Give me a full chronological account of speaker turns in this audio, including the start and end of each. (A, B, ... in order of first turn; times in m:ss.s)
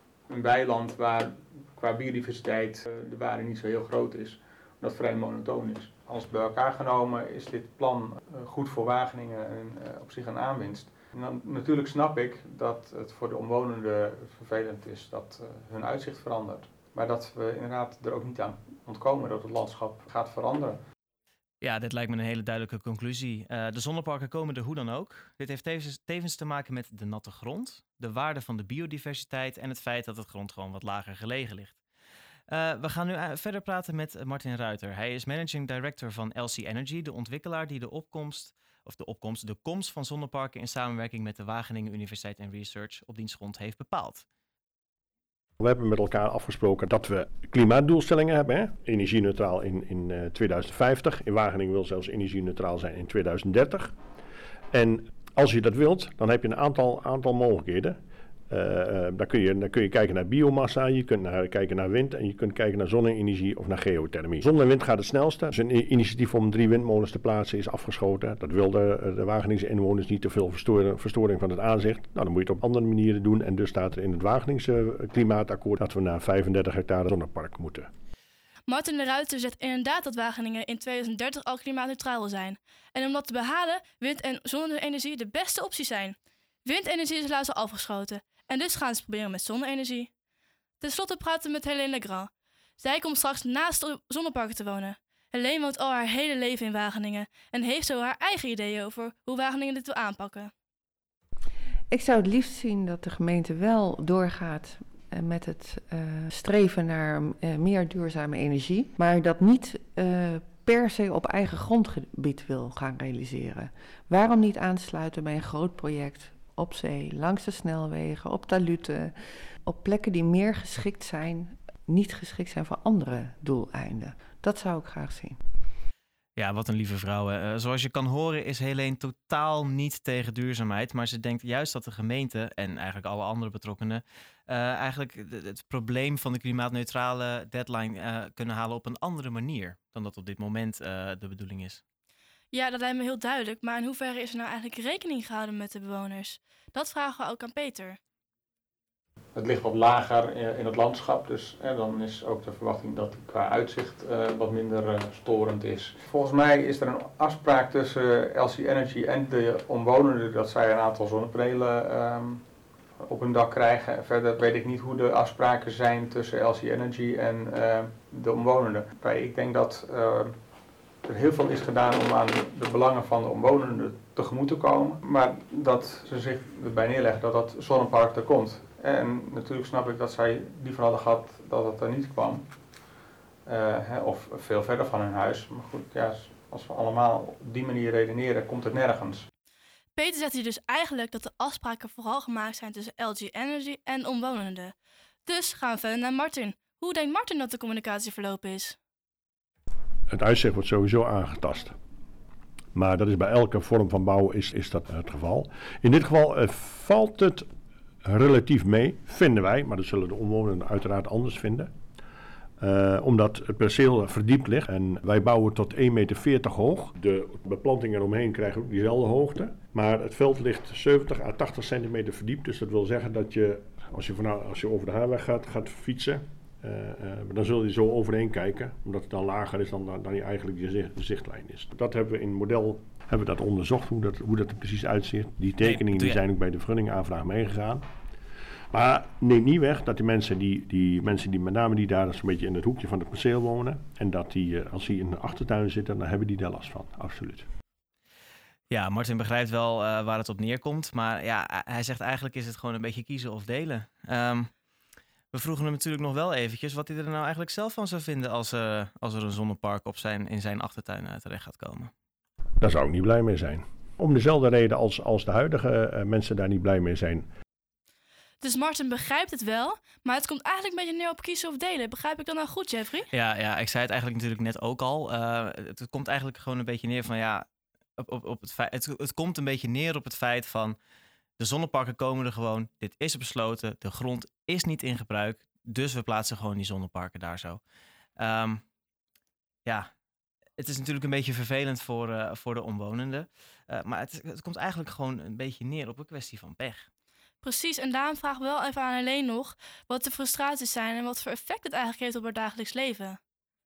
0:00.3-0:20.8 A
0:21.6-0:31.8 B
0:32.5-0:44.2 B
0:45.6-0:53.9 C
0:54.7-0:58.0 C
0:58.5-1:17.9 C
1:18.7-1:30.1 D
1:30.8-1:40.5 D
1:41.9-1:59.1 E
1:59.6-2:05.4 E
2:06.4-2:21.8 B
2:22.5-2:28.0 D
2:29.3-2:42.4 A
2:43.0-2:50.3 A
2:51.0-3:02.4 A
3:03.4-3:09.2 A
3:10.0-3:14.7 D
3:15.2-3:18.8 D
3:20.1-3:21.7 C
3:22.7-3:27.4 C
3:28.0-3:31.7 C
3:32.6-3:57.8 C
3:55.6-3:56.2 B
3:58.7-4:07.5 C
4:08.7-4:14.5 B
4:15.3-4:21.9 B
4:22.6-4:27.3 C
4:28.4-4:33.1 D
4:33.1-4:40.8 B
4:41.4-4:47.6 B
4:48.2-4:48.6 B
4:50.6-4:56.9 B
4:57.4-5:03.2 D